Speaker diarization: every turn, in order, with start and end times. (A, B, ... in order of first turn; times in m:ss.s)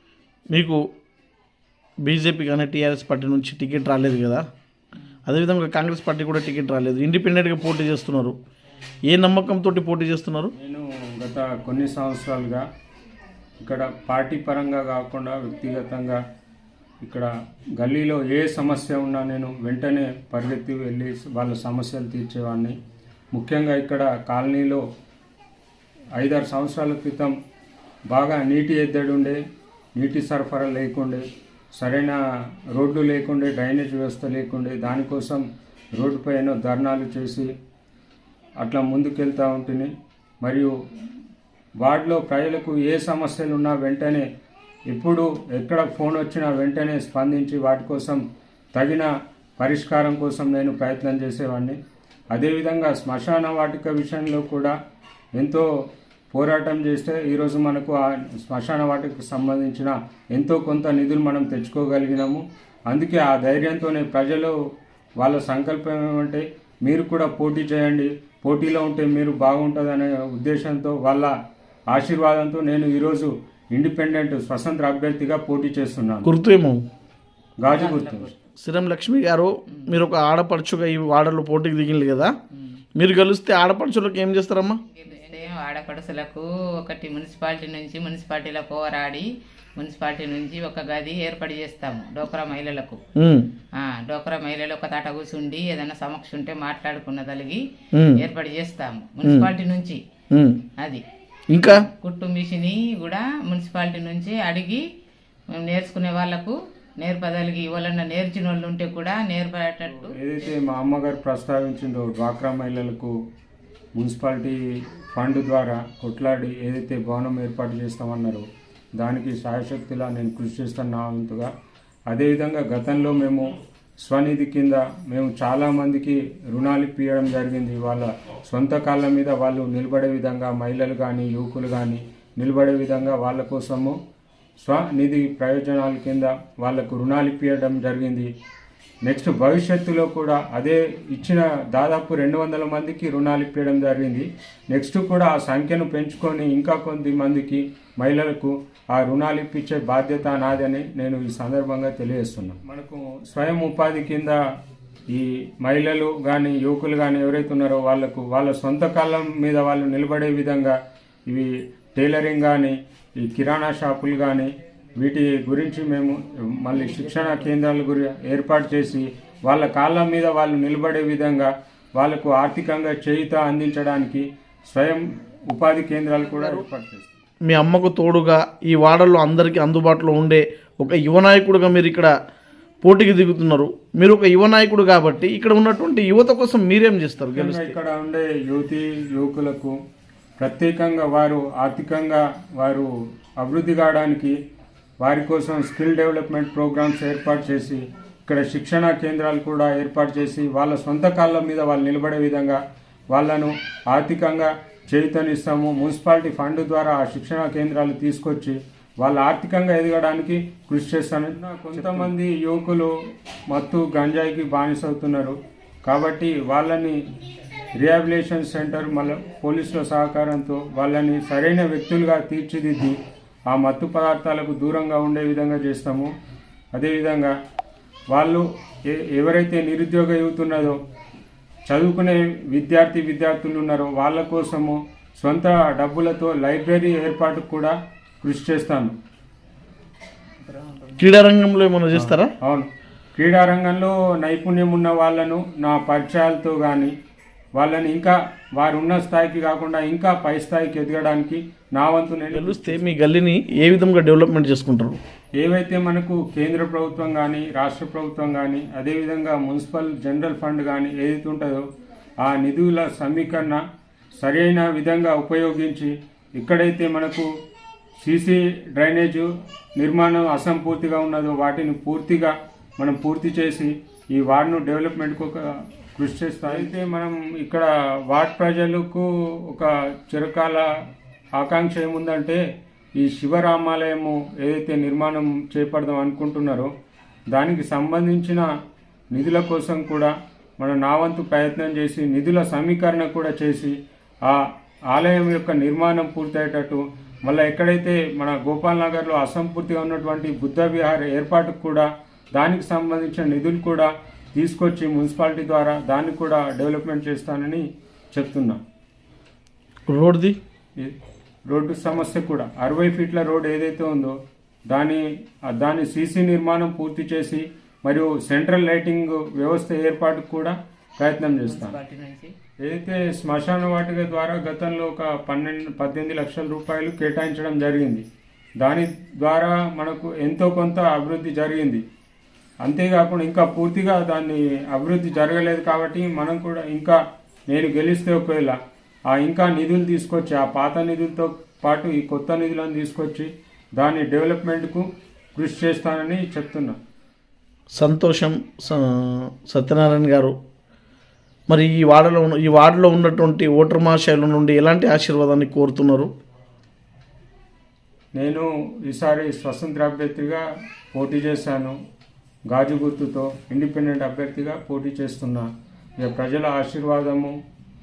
0:00.5-0:00.8 A
0:02.0-0:04.5 A
0:05.3-0:08.4 A
0:09.1-0:10.5 A
0:10.6-0:12.6 B
0:13.6-0:16.2 B
0:17.0-0:22.8 B
0:23.3-0:24.8 B
0:26.2-0:27.3 B
0:28.1-0:29.4 B
0:30.0-0:31.2 B
0:31.7-0:32.2 B
0:32.7-0:35.4 B
0:36.0-0:37.5 B
0:38.6-0:39.9 B
0:40.4-0:40.7 B
0:41.8-0:44.2 B
0:44.9-0:48.2 B
0:48.7-0:51.8 B
0:52.3-0:54.7 B
0:55.3-0:55.7 B
0:56.3-1:04.5 B
1:05.2-1:11.3 B
1:11.9-1:16.3 B
1:16.2-1:16.8 A
1:17.6-1:18.3 B
1:17.7-1:18.4 C
1:18.6-1:22.3 A
1:23.0-1:24.8 A
1:24.9-1:33.0 C
1:33.2-1:33.5 A
1:33.8-1:37.6 C
1:37.9-1:38.2 A
1:38.1-1:40.0 C
1:39.2-1:39.5 A
1:40.3-1:40.6 A
1:40.8-1:41.0 C
1:41.5-1:41.8 A
1:41.6-1:44.8 C
1:45.5-1:50.2 C
1:49.8-1:53.1 B
1:54.0-1:58.4 B
1:59.0-2:01.5 B
2:02.1-2:14.0 B
2:14.6-2:18.3 B
2:19.0-2:34.4 B
2:35.1-2:40.8 B
2:41.3-2:57.1 B
2:46.8-2:47.5 C
2:57.4-3:02.1 A
3:02.8-3:07.7 A
3:07.3-3:09.8 B
3:10.4-3:14.3 B
3:15.0-3:22.6 B
3:23.1-3:32.9 B
3:33.5-3:37.0 B
3:37.8-3:43.0 B
3:43.5-3:46.1 B
3:46.7-3:47.3 B
3:48.1-3:50.8 B
3:51.7-3:59.0 B
4:00.4-4:01.0 C
4:01.0-4:02.3 A
4:01.9-4:06.9 B
4:07.5-4:12.9 B
4:12.3-4:15.0 A
4:15.4-4:21.6 B
4:22.2-4:23.6 B
4:24.2-4:27.3 B
4:28.0-4:40.6 B
4:41.4-4:42.4 B
4:43.0-4:46.7 B
4:47.3-4:48.5 B
4:49.1-4:54.4 B
4:54.9-5:08.6 B
5:09.9-5:10.4 A
5:11.5-5:14.2 B
5:14.7-5:21.8 B
5:21.5-5:22.3 C
5:22.6-5:28.0 B
5:28.6-5:31.8 B
5:32.6-5:37.0 B
5:37.5-5:38.6 B
5:39.1-5:44.8 B
5:45.4-5:46.8 B
5:47.7-5:50.4 A
5:51.5-5:56.1 A
5:58.1-6:01.8 B
6:02.5-6:05.5 B
6:06.0-6:07.3 B